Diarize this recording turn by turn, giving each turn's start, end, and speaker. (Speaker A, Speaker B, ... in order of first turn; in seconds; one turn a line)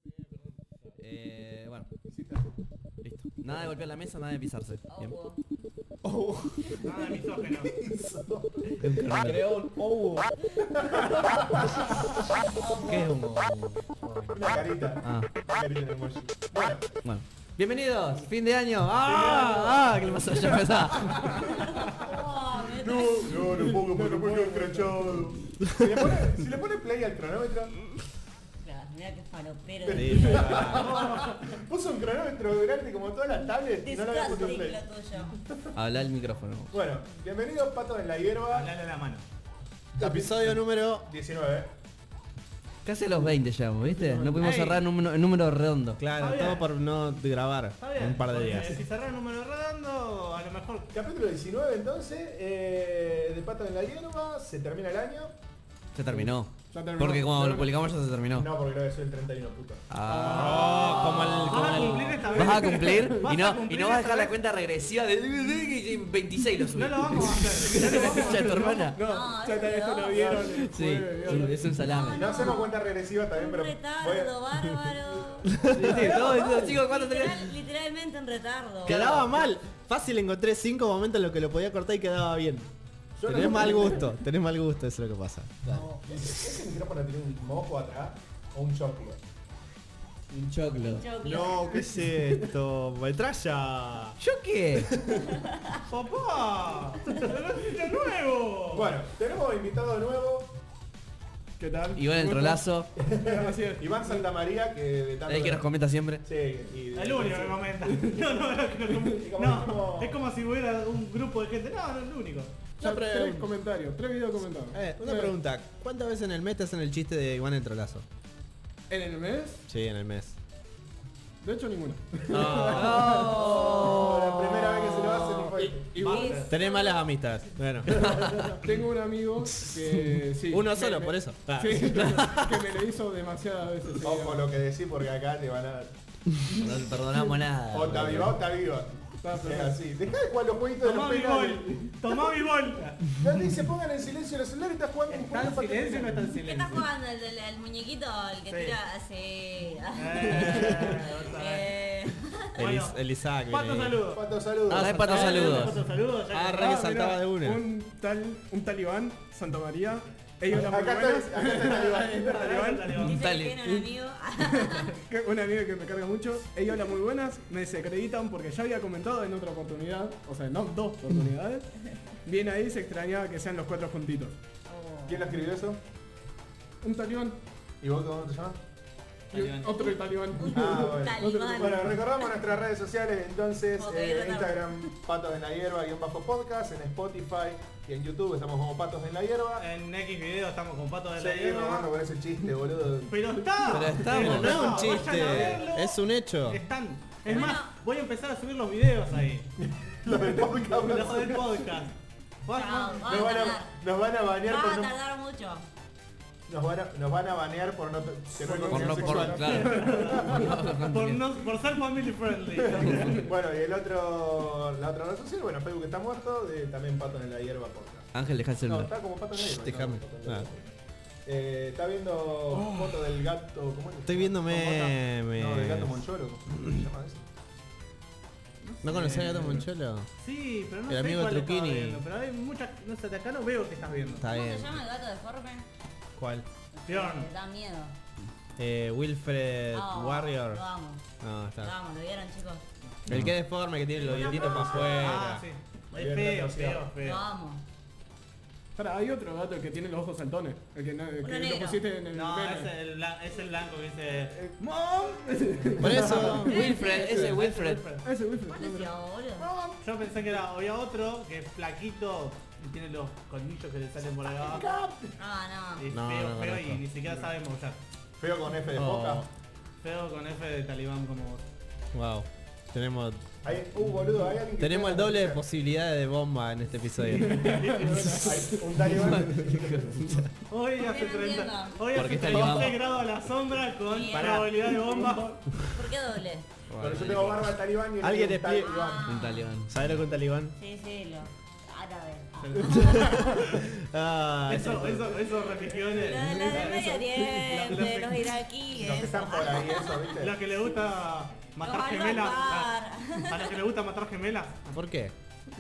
Speaker A: 1.0-1.9
Speaker B: 2.0-2.5
Speaker A: 3.0-5.1
Speaker C: 4.9-5.4
Speaker D: 6.0-6.8
Speaker E: 6.8-7.8
Speaker B: 7.4-9.4
Speaker A: 8.8-9.7
Speaker D: 9.2-10.3
Speaker B: 10.6-12.0
Speaker C: 12.5-13.1
Speaker A: 12.8-15.3
Speaker B: 14.3-17.0
Speaker A: 17.0-21.6
Speaker B: 19.0-27.8
Speaker C: 21.8-23.5
Speaker F: 23.7-25.1
Speaker C: 28.6-30.7
Speaker B: 29.9-34.8
Speaker D: 29.9-31.0
Speaker A: 30.1-30.6
Speaker E: 30.6-31.4
Speaker C: 33.8-35.4
Speaker B: 35.4-35.7
Speaker A: 35.8-36.8
Speaker B: 36.7-38.7
Speaker E: 38.5-39.2
Speaker B: 40.0-41.7
Speaker D: 40.0-41.1
Speaker A: 42.9-46.0
Speaker F: 44.0-44.4
Speaker D: 44.4-44.8
Speaker D: 46.0-48.8
Speaker E: 46.2-46.7
Speaker E: 47.8-50.9
Speaker B: 48.0-48.8
Speaker B: 50.9-55.3
Speaker A: 56.0-58.5
Speaker F: 56.1-57.8
Speaker B: 58.3-61.3
Speaker A: 59.9-61.6
Speaker F: 60.1-60.9
Speaker D: 60.2-62.4
Speaker E: 61.4-64.3
Speaker F: 62.2-63.4
Speaker A: 62.3-69.0
Speaker E: 66.7-68.8
Speaker F: 67.8-71.8
Speaker C: 69.0-70.2
Speaker B: 70.1-70.5
Speaker A: 70.5-72.6
Speaker C: 71.8-72.8
Speaker B: 72.1-74.3
Speaker C: 73.3-79.3
Speaker D: 75.6-76.1
Speaker A: 75.7-77.5
Speaker F: 76.0-76.7
Speaker D: 78.8-82.7
Speaker B: 83.2-84.1
Speaker D: 83.2-85.7
Speaker A: 85.7-85.9
Speaker B: 86.0-89.2
Speaker D: 86.2-86.5
Speaker A: 90.3-91.1
Speaker C: 91.0-91.7
Speaker D: 91.2-94.2
Speaker F: 91.7-92.5
Speaker A: 94.2-95.0
Speaker C: 95.3-95.8
Speaker E: 95.9-99.0
Speaker B: 98.7-100.5
Speaker F: 101.6-102.6
Speaker A: 102.0-102.9
Speaker B: 103.0-105.6
Speaker F: 103.2-104.3
Speaker A: 105.3-106.2
Speaker B: 106.2-107.7
Speaker E: 107.0-112.7
Speaker F: 107.9-108.2
Speaker B: 109.1-110.2
Speaker F: 112.8-115.3
Speaker D: 112.8-113.5
Speaker D: 114.7-118.1
Speaker F: 118.9-119.7
Speaker D: 119.7-120.4
Speaker F: 121.4-123.3
Speaker A: 122.3-124.3
Speaker D: 122.3-128.5
Speaker B: 123.3-126.3
Speaker A: 124.8-125.2
Speaker C: 126.0-127.0
Speaker E: 126.2-126.5
Speaker B: 127.9-128.6
Speaker F: 128.6-134.5
Speaker D: 130.1-132.5
Speaker B: 134.0-135.9
Speaker A: 136.6-138.4
Speaker B: 137.7-141.9
Speaker F: 139.2-139.8
Speaker E: 140.8-143.1
Speaker B: 143.1-146.2
Speaker E: 145.1-146.9
Speaker C: 146.4-152.6
Speaker E: 148.5-148.8
Speaker E: 149.9-151.7
Speaker E: 152.6-153.0
Speaker D: 152.6-154.0
Speaker E: 153.5-154.3
Speaker B: 154.1-155.7
Speaker A: 154.7-155.8
Speaker D: 154.7-157.6
Speaker E: 155.0-156.9
Speaker F: 156.5-163.0
Speaker B: 160.5-162.8
Speaker E: 162.2-163.3
Speaker C: 163.0-165.0
Speaker A: 163.1-163.6
Speaker F: 164.6-171.7
Speaker F: 172.2-174.4
Speaker C: 174.7-175.4
Speaker B: 175.1-175.8
Speaker F: 176.8-177.4
Speaker B: 177.8-178.6
Speaker E: 179.3-180.0
Speaker F: 179.3-182.0
Speaker C: 180.3-182.3
Speaker B: 180.5-189.7
Speaker C: 183.8-184.7
Speaker E: 189.6-191.9
Speaker B: 191.2-195.6
Speaker E: 193.1-199.5
Speaker A: 193.7-195.0
Speaker D: 194.0-196.6
Speaker C: 197.3-197.7
Speaker B: 199.6-201.6
Speaker E: 200.7-203.2
Speaker C: 202.5-203.7
Speaker B: 203.1-204.9
Speaker C: 204.4-205.7
Speaker B: 206.5-210.7
Speaker A: 208.4-211.2
Speaker F: 208.6-210.0
Speaker E: 209.4-213.3
Speaker B: 212.6-218.1
Speaker A: 218.1-218.9
Speaker B: 218.7-220.7
Speaker D: 219.3-220.5
Speaker B: 221.3-227.3
Speaker F: 222.5-222.8
Speaker D: 224.1-226.0
Speaker E: 228.6-234.3
Speaker D: 228.8-230.1
Speaker D: 230.9-232.0
Speaker D: 234.2-234.7
Speaker C: 234.2-235.7
Speaker D: 236.2-236.5
Speaker C: 236.7-237.9
Speaker E: 236.9-237.3
Speaker D: 238.6-240.7
Speaker C: 239.7-241.0
Speaker D: 241.2-241.8
Speaker C: 241.6-242.6
Speaker E: 242.8-243.2
Speaker D: 243.1-245.4
Speaker B: 244.0-245.2
Speaker C: 244.0-245.2
Speaker E: 244.8-247.2
Speaker B: 245.9-246.9
Speaker C: 247.0-247.6
Speaker F: 248.8-252.7
Speaker C: 251.2-251.8
Speaker E: 252.1-255.2
Speaker F: 255.2-256.4
Speaker D: 255.8-256.6
Speaker A: 255.8-257.9
Speaker B: 255.9-256.6
Speaker E: 256.1-258.1
Speaker C: 256.5-257.0
Speaker F: 256.9-257.3
Speaker F: 258.0-258.9
Speaker C: 258.5-259.5
Speaker B: 259.4-259.9
Speaker E: 259.8-264.8
Speaker B: 264.4-265.2
Speaker C: 265.2-265.9
Speaker E: 265.8-267.8
Speaker D: 265.9-266.8
Speaker B: 268.2-269.3
Speaker A: 268.8-269.2
Speaker D: 268.8-269.2
Speaker E: 269.8-271.4
Speaker D: 271.9-273.2
Speaker B: 273.4-275.4
Speaker D: 274.6-277.8
Speaker F: 277.3-278.4
Speaker B: 277.4-280.3
Speaker A: 278.8-280.2
Speaker E: 280.5-285.5
Speaker C: 280.8-282.2
Speaker A: 281.9-282.9
Speaker C: 283.9-284.5
Speaker B: 284.1-285.2
Speaker C: 285.7-286.5
Speaker A: 286.7-287.5
Speaker B: 286.8-289.1
Speaker D: 288.0-288.8
Speaker C: 288.6-289.5
Speaker A: 289.0-289.9
Speaker D: 289.7-290.6
Speaker C: 290.6-293.3
Speaker E: 292.4-293.6
Speaker D: 292.8-295.3
Speaker E: 294.5-298.4
Speaker C: 295.9-300.2
Speaker D: 296.4-296.7
Speaker B: 298.7-300.4
Speaker E: 300.2-304.8
Speaker C: 301.6-303.6
Speaker D: 304.7-305.1